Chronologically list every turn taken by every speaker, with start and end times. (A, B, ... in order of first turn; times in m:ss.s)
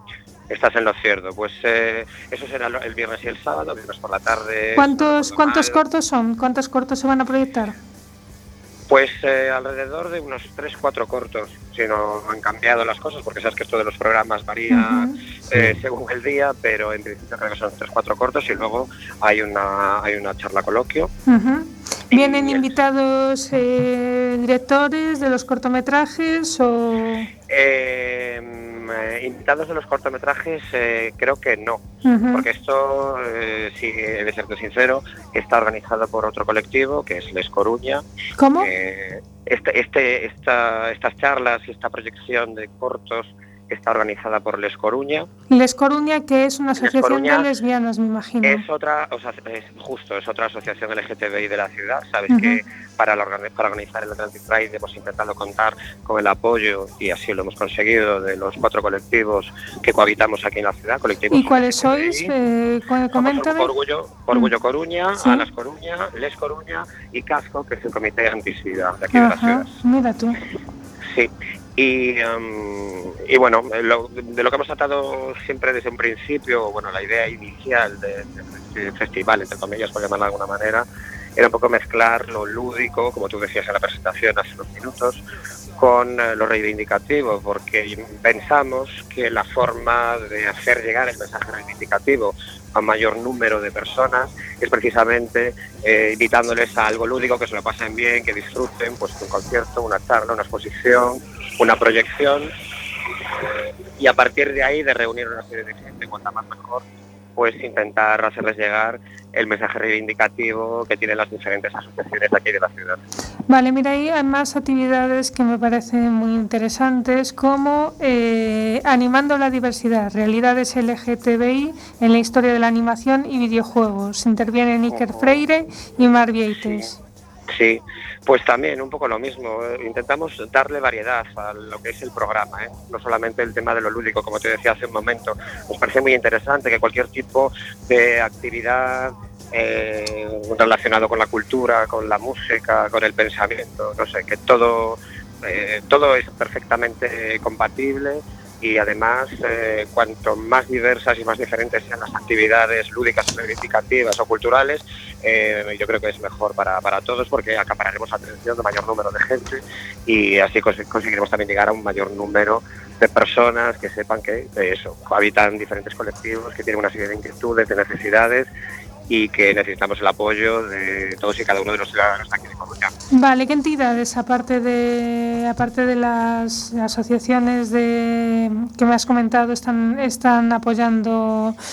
0:00.5-0:05.8 A
0:04.8-0:07.8 B
0:08.9-0:21.1 A
0:14.7-0:15.2 B
0:21.3-0:27.3 B
0:22.1-0:22.7 A
0:27.5-0:38.0 A
0:32.0-0:32.5 B
0:38.4-0:38.7 B
0:38.6-0:45.3 A
0:45.5-0:48.6 B
0:46.8-0:47.5 A
0:48.4-1:02.3 A
0:52.3-0:52.6 B
1:01.3-1:03.7 B
1:03.1-1:09.7 A
1:09.1-1:10.4 B
1:11.1-1:20.9 A
1:21.4-1:25.2 A
1:25.8-1:42.5 A
1:44.0-1:46.8 A
1:47.4-1:53.0 A
1:53.5-2:07.0 B
2:04.9-2:05.4 A
2:07.5-2:48.5 A
2:49.1-2:52.9 A
2:53.1-3:01.6 B